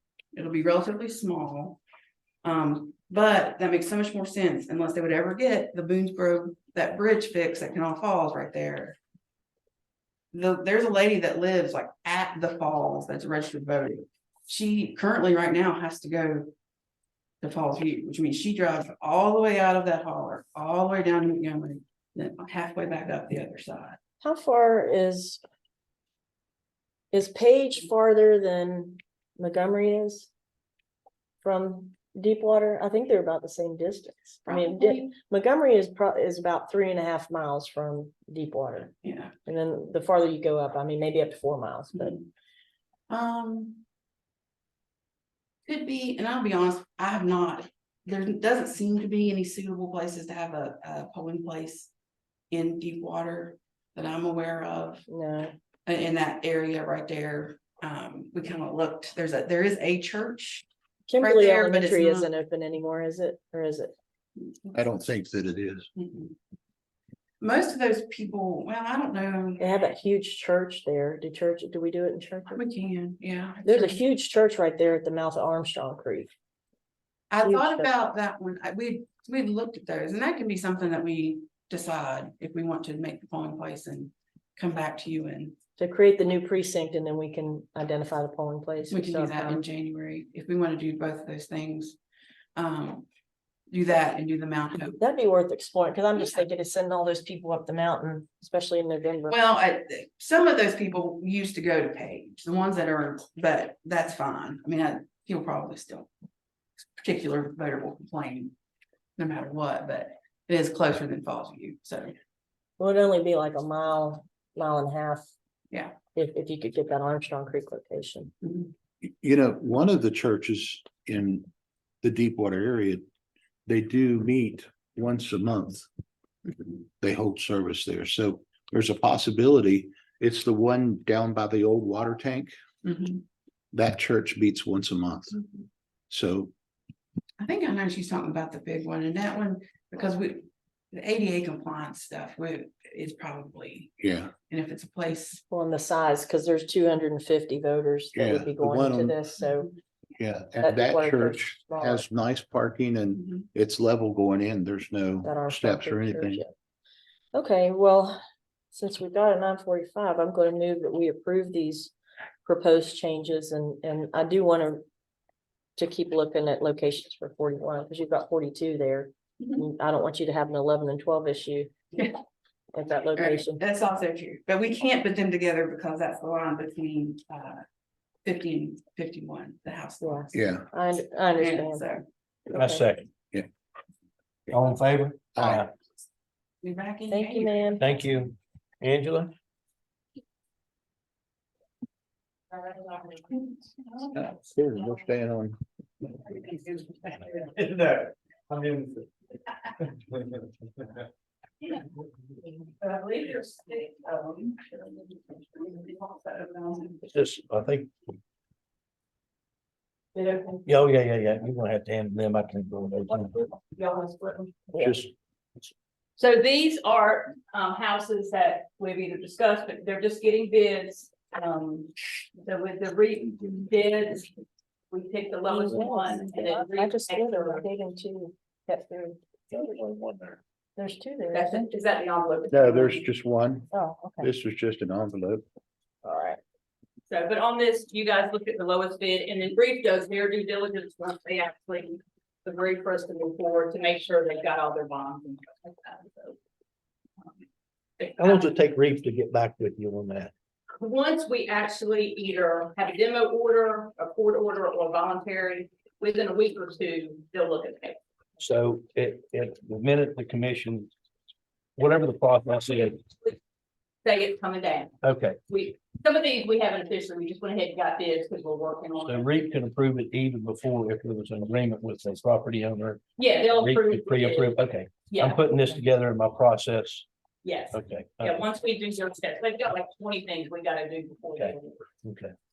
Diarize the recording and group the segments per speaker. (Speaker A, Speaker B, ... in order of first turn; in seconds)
Speaker A: 0.3-1.8, 2.4-9.0, 10.3-16.5, 17.4-24.0, 34.5-35.1, 39.0-39.3, 42.0-42.3, 43.1-43.8, 45.7-51.9, 52.5-55.0, 55.9-60.6, 61.2-62.3, 64.4-64.8, 65.9-66.3, 67.4-69.6, 72.5-74.0, 77.3-85.6, 88.9-92.0, 92.6-93.1, 93.7-95.0, 99.3-106.1, 107.0-108.5, 109.2-112.2, 115.7-116.0, 118.4-118.7, 132.8-133.2, 137.4-143.9, 144.5-145.4, 173.2-177.6, 178.2-180.5, 181.4-182.0, 186.6-187.9
Speaker B: 24.2-25.4, 27.1-30.3, 31.4-38.9, 39.5-42.2, 55.1-55.5, 61.1-63.9, 69.6-72.6, 73.6-76.3, 77.4-77.9, 85.8-89.6, 95.0-99.4, 112.8-115.3, 116.1-118.3, 145.5-149.7, 150.6-152.1, 155.2-156.5, 157.3-158.2, 158.7-161.9, 162.4-164.8, 165.8-171.7, 172.7-173.6, 180.0-181.8, 182.5-182.8, 187.1-187.8, 225.5-229.6, 230.8-231.7, 233.7-234.3, 236.0-236.4
Speaker C: 64.8-65.9, 119.0-121.5, 122.0-123.0, 123.7-125.9, 127.0-132.5, 133.7-135.4, 136.1-136.5, 144.0-144.3, 148.2-149.2, 150.2-156.4, 180.3-180.7, 185.3-185.6, 194.2-195.6, 214.8-215.1, 232.5-233.7, 234.2-235.4
Speaker D: 182.5-183.1, 184.5-185.7, 187.8-189.3, 197.7-198.9, 207.1-207.9, 210.7-213.3, 229.6-230.4, 248.2-250.3, 258.4-260.9, 261.8-263.0, 265.0-265.4, 269.0-277.1, 277.7-278.4, 281.4-282.3
Speaker E: 192.5-194.1, 196.3-197.5, 202.8-207.0, 210.2-210.6, 213.1-214.7, 216.2-224.3, 224.9-227.6, 231.3-233.1, 237.1-246.4, 248.0-248.4, 250.7-258.0, 264.0-264.9, 265.5-269.3, 273.2-275.8, 277.4-281.9